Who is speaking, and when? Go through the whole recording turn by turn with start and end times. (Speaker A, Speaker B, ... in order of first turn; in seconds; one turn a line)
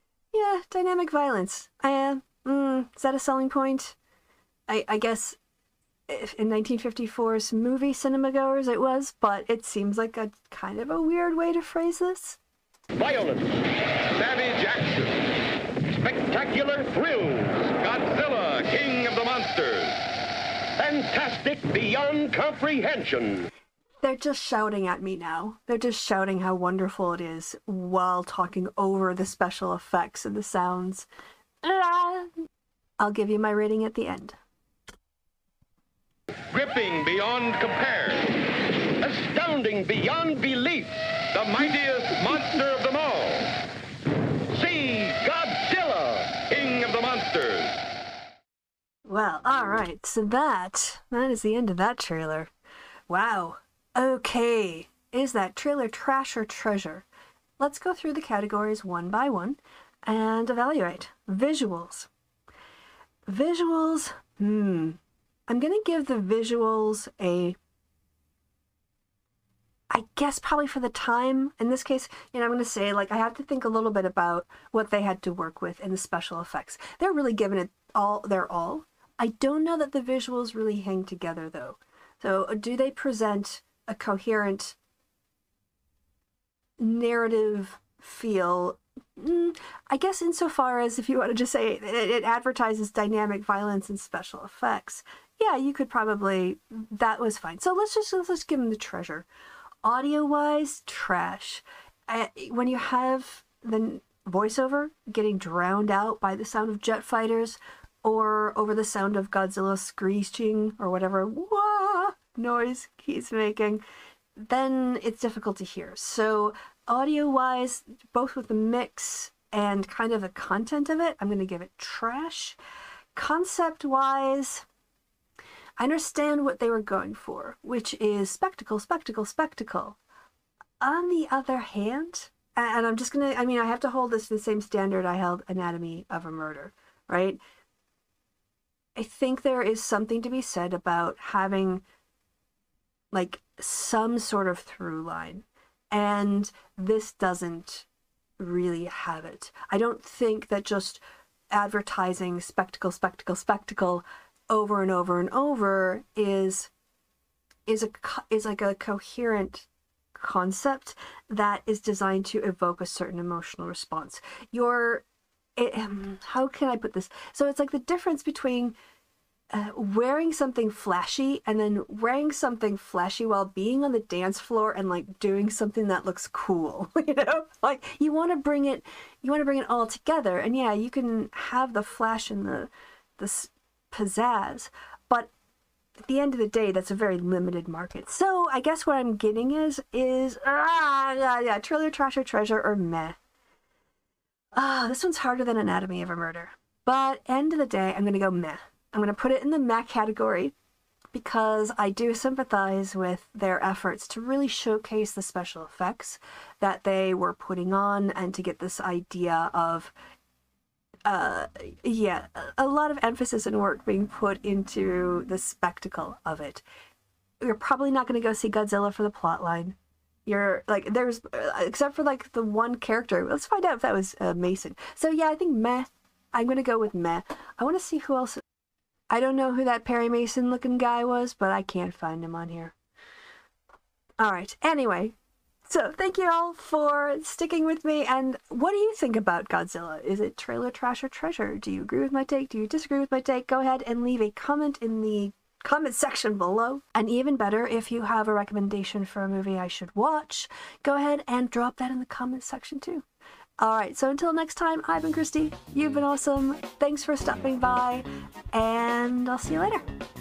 Speaker A: 0.3-4.0
Speaker A: 4.7-5.4
Speaker A: 6.1-12.4
Speaker B: 12.9-13.7
Speaker C: 14.1-15.3
Speaker B: 15.9-17.7
Speaker C: 17.7-20.0
Speaker B: 20.8-23.5
Speaker A: 24.0-31.1
Speaker A: 31.6-32.3
Speaker A: 33.0-34.4
Speaker C: 36.5-38.4
Speaker B: 39.0-41.1
Speaker C: 41.2-43.5
Speaker B: 44.5-46.3
Speaker C: 44.6-45.1
Speaker C: 46.3-47.8
Speaker A: 49.0-52.5
Speaker A: 53.1-57.0
Speaker A: 57.6-62.1
Speaker A: 63.3-67.6
Speaker A: 69.9-84.8
Speaker A: 86.8-99.3
Speaker A: 99.8-113.8
Speaker A: 114.4-122.6
Speaker A: 123.1-124.7
Speaker A: 125.8-130.0
Speaker A: 130.8-137.4
Speaker A: 138.9-141.8
Speaker A: 143.1-147.9
Speaker A: 148.4-156.7
Speaker A: 157.7-165.0
Speaker A: 165.6-168.7
Speaker A: 169.5-185.3
Speaker A: 186.0-193.2
Speaker A: 194.5-200.5
Speaker A: 201.1-209.9
Speaker A: 211.1-216.6
Speaker A: 217.4-228.4
Speaker A: 229.1-232.7
Speaker A: 234.2-235.1
Speaker A: 235.7-253.0
Speaker A: 253.6-259.8